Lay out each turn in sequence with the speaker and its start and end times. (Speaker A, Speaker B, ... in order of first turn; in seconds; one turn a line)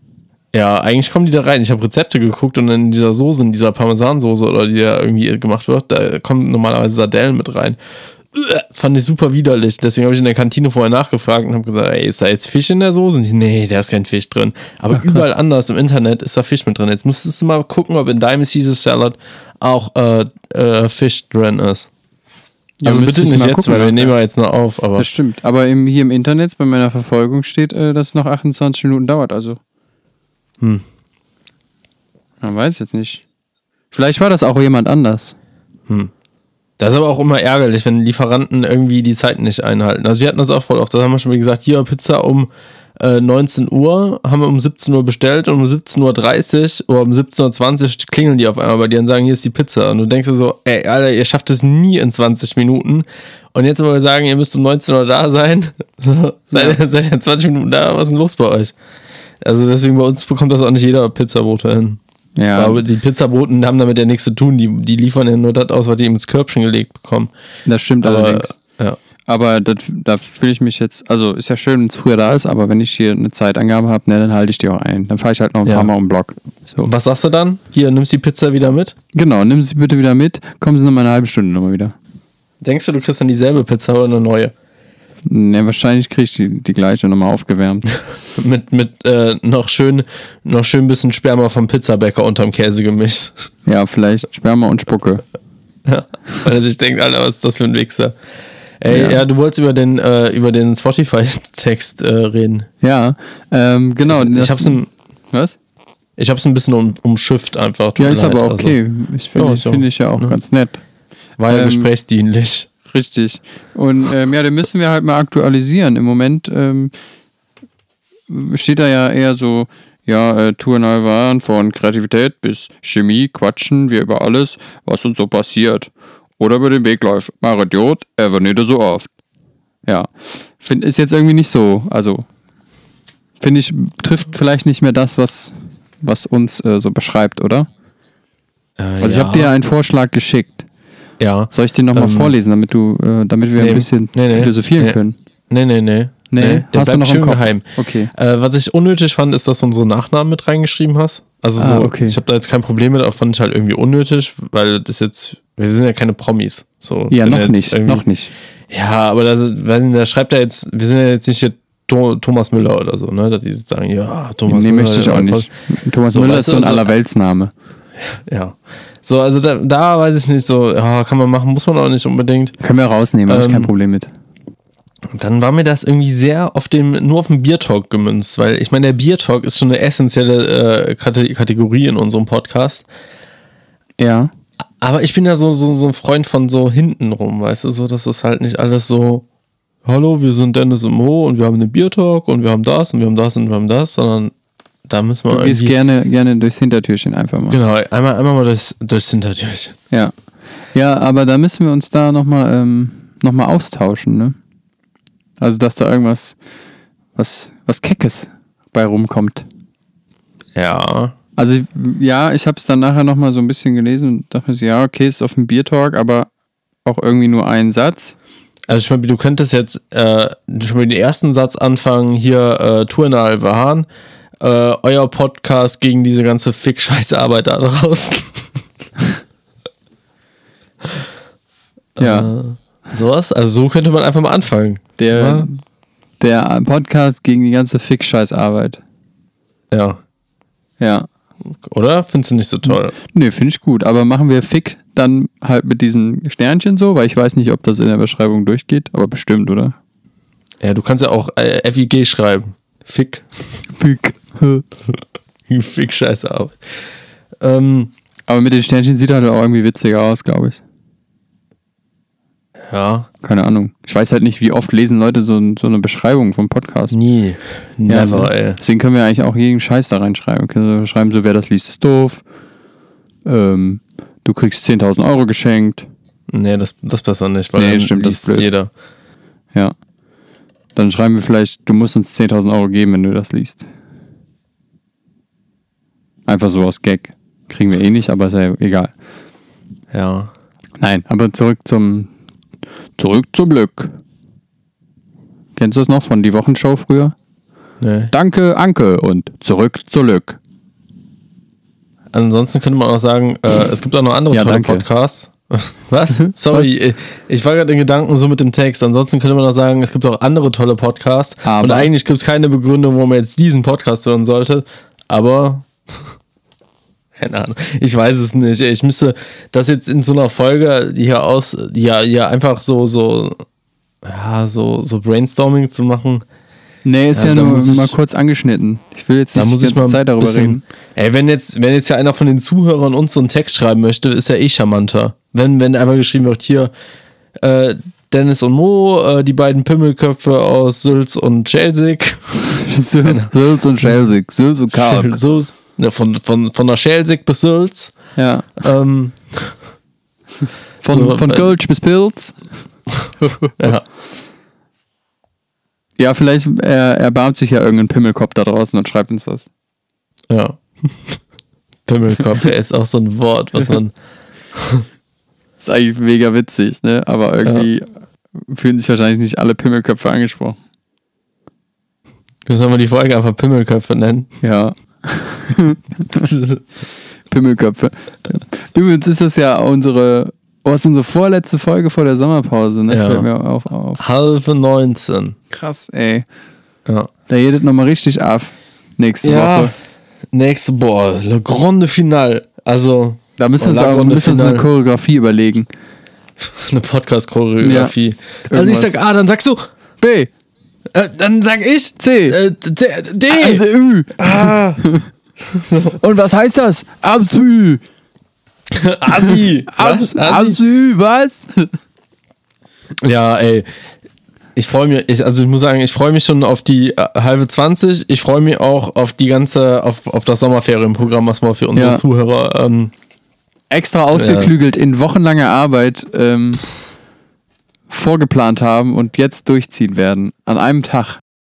Speaker A: 0.5-7.8
Speaker A: 8.3-21.9
Speaker B: 14.9-15.3
Speaker B: 22.8-24.1
Speaker A: 22.9-25.1
Speaker B: 25.0-29.6
Speaker B: 32.4-33.2
Speaker B: 33.9-35.4
Speaker A: 36.8-58.7
Speaker B: 56.5-56.8
Speaker A: 59.4-62.0
Speaker B: 62.4-62.8
Speaker A: 62.5-67.3
Speaker B: 67.7-68.6
Speaker A: 68.0-69.0
Speaker B: 69.3-76.9
Speaker A: 75.7-75.9
Speaker A: 76.8-79.0
Speaker B: 79.1-81.9
Speaker A: 82.6-84.5
Speaker B: 85.3-87.9
Speaker A: 88.3-93.4
Speaker B: 93.7-95.2
Speaker A: 95.9-98.2
Speaker A: 98.8-102.7
Speaker B: 98.9-99.2
Speaker B: 102.8-105.6
Speaker A: 104.1-104.9
Speaker A: 106.2-108.8
Speaker B: 108.0-110.8
Speaker A: 109.3-110.4
Speaker A: 111.4-112.7
Speaker B: 111.5-111.9
Speaker B: 112.9-116.9
Speaker B: 118.3-129.1
Speaker B: 129.9-132.3
Speaker B: 133.4-137.7
Speaker A: 138.8-139.5
Speaker B: 139.0-140.7
Speaker A: 141.2-142.3
Speaker B: 141.5-145.2
Speaker A: 143.6-145.0
Speaker A: 145.5-158.0
Speaker B: 146.3-148.1
Speaker B: 151.6-152.2
Speaker B: 157.1-158.3
Speaker A: 158.7-165.5
Speaker B: 164.5-167.5
Speaker A: 166.1-166.9
Speaker A: 168.0-172.6
Speaker B: 172.6-174.1
Speaker A: 173.3-173.7
Speaker A: 175.1-182.8
Speaker B: 184.0-184.3
Speaker A: 184.8-189.2
Speaker A: 189.8-194.3
Speaker A: 194.9-195.7
Speaker B: 195.3-197.6
Speaker A: 197.5-199.8
Speaker B: 200.7-204.4
Speaker B: 205.4-206.4
Speaker B: 207.2-209.5
Speaker A: 210.6-211.2
Speaker B: 211.4-216.3
Speaker B: 216.8-218.2
Speaker A: 218.7-223.9
Speaker A: 224.4-228.6
Speaker A: 232.0-235.5
Speaker B: 232.0-232.3
Speaker B: 235.0-235.6
Speaker B: 236.2-238.8
Speaker A: 239.7-240.0
Speaker B: 240.8-241.1
Speaker A: 241.5-242.9
Speaker B: 242.7-249.8
Speaker A: 250.6-253.6
Speaker B: 253.7-254.7
Speaker A: 255.5-256.6
Speaker A: 257.4-257.9
Speaker B: 258.3-260.6
Speaker A: 262.7-263.1
Speaker B: 263.2-267.0
Speaker A: 266.9-268.6
Speaker B: 267.9-272.2
Speaker B: 273.2-275.9
Speaker A: 276.3-278.7
Speaker B: 277.6-278.5
Speaker B: 280.8-283.7
Speaker B: 286.3-288.9
Speaker A: 289.9-290.3
Speaker B: 290.8-292.1
Speaker B: 293.0-293.9
Speaker B: 295.6-297.1
Speaker A: 297.8-298.1
Speaker B: 298.1-300.4
Speaker A: 302.1-316.1
Speaker B: 304.3-304.9
Speaker B: 306.2-306.7
Speaker B: 311.4-311.9
Speaker A: 317.1-323.4
Speaker A: 324.0-326.2
Speaker B: 326.9-330.6
Speaker A: 327.1-328.0
Speaker A: 329.4-336.7
Speaker A: 337.4-342.4
Speaker B: 342.5-345.2
Speaker A: 344.7-347.9
Speaker B: 348.2-348.5
Speaker A: 348.6-349.6
Speaker B: 350.8-352.4
Speaker A: 350.9-351.5
Speaker B: 353.2-353.7
Speaker A: 353.6-353.8
Speaker B: 356.0-359.5
Speaker A: 360.3-361.2
Speaker A: 361.9-363.9
Speaker A: 364.5-364.9
Speaker B: 365.6-367.9
Speaker B: 368.4-370.6
Speaker A: 372.5-374.3
Speaker B: 374.4-376.3
Speaker A: 376.1-376.6
Speaker B: 377.3-384.0
Speaker A: 382.9-383.3
Speaker A: 384.0-385.4
Speaker B: 385.5-386.3
Speaker B: 387.3-389.7
Speaker A: 389.2-389.7
Speaker A: 390.3-394.7
Speaker B: 393.4-395.7
Speaker A: 396.4-399.6
Speaker B: 397.6-397.9
Speaker B: 398.5-399.0
Speaker B: 400.0-400.3
Speaker A: 400.9-403.6
Speaker B: 402.0-402.4
Speaker B: 403.3-405.1
Speaker A: 404.2-404.8
Speaker A: 405.5-406.0
Speaker B: 406.0-407.8
Speaker A: 408.7-410.6
Speaker B: 409.1-411.7
Speaker A: 413.0-413.7
Speaker A: 414.6-422.9
Speaker B: 421.8-422.0
Speaker B: 423.7-426.6
Speaker A: 424.1-424.5
Speaker B: 427.9-431.2